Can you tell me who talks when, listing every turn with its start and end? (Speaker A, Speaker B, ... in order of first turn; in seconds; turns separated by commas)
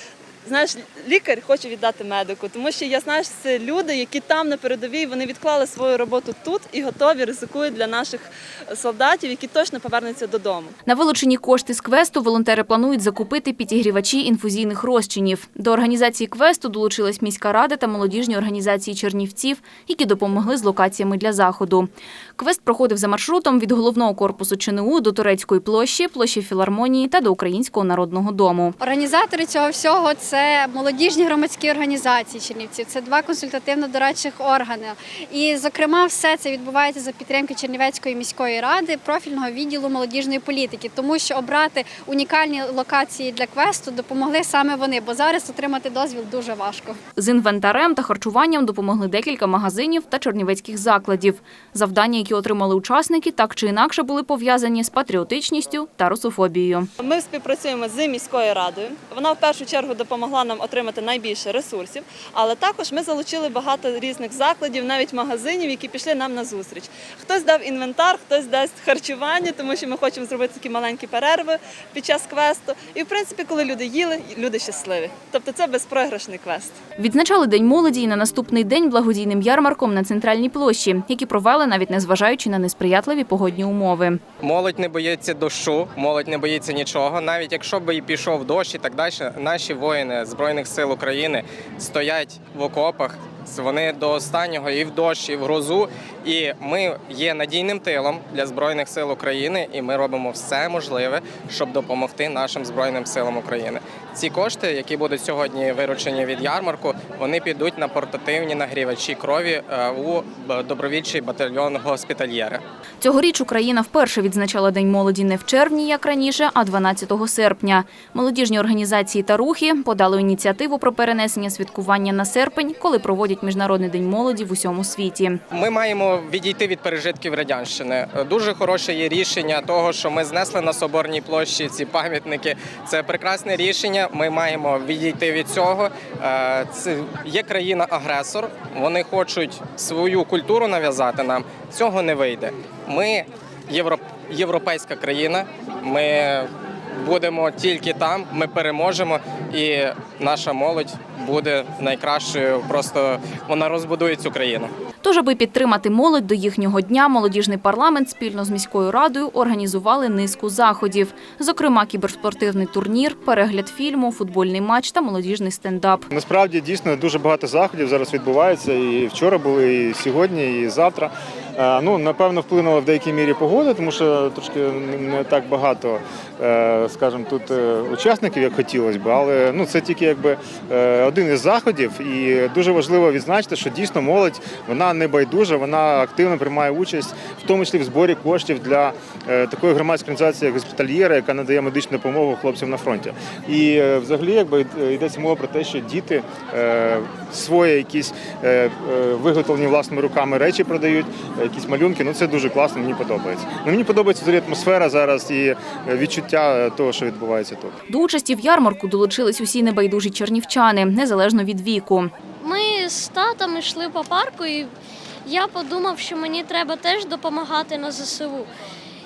Speaker A: 0.5-10.7, Speaker B: 10.8-28.8, Speaker C: 28.8-47.0, Speaker B: 47.2-56.9, Speaker A: 57.0-76.8, Speaker B: 77.0-84.2, Speaker D: 84.4-112.6, Speaker B: 113.0-125.4, Speaker D: 125.5-154.7, Speaker B: 155.0-166.1, Speaker E: 166.1-207.7, Speaker B: 207.9-212.1, Speaker F: 212.4-214.7, Speaker F: 215.2-218.5